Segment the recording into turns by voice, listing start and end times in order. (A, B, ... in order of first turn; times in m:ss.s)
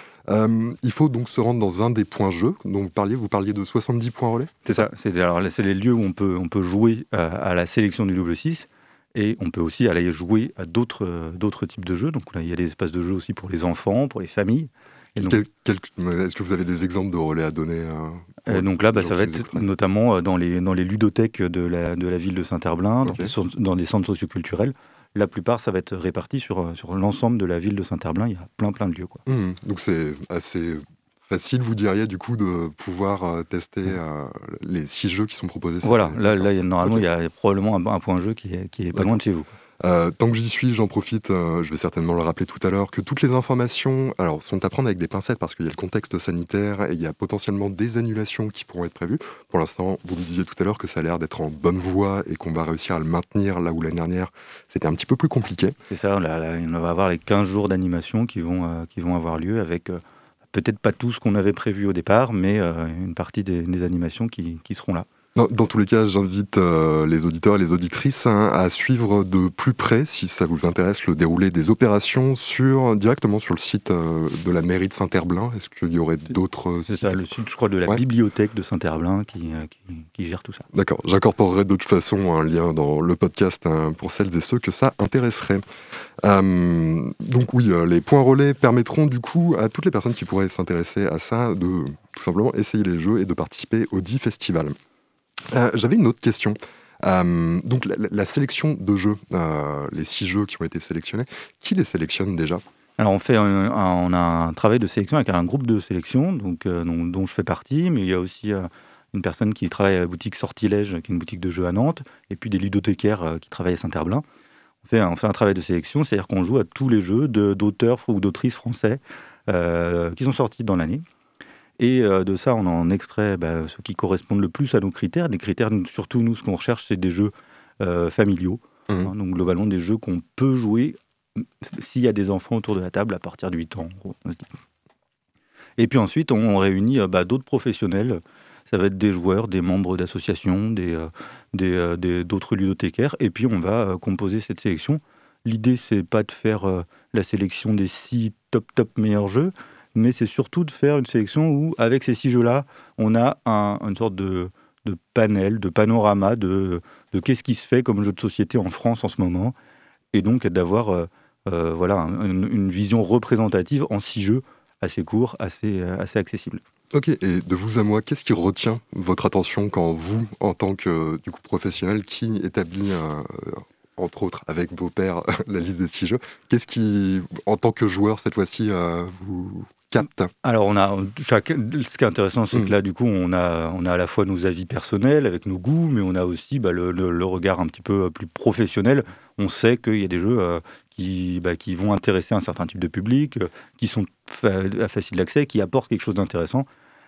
0:00.3-0:04.9 A
0:04.7-0:15.4 B
0:15.2-0:19.7 A
0:18.5-0:29.2 B
0:23.0-0:23.3 A
0:29.3-0:37.1 A
0:35.8-0:39.5 B
0:38.9-0:39.2 A
0:39.8-0:55.8 A
0:55.9-1:00.0 B
1:00.5-1:05.1 B
1:05.4-1:17.4 A
1:16.9-1:20.6 B
1:20.7-1:25.6 A
1:26.2-1:34.8 A
1:35.5-1:42.6 A
1:43.0-1:54.2 B
1:54.8-2:01.0 B
2:01.8-2:14.5 B
2:15.8-2:39.6 B
2:40.1-2:46.6 B
2:46.9-3:00.3 A
3:00.4-3:16.7 B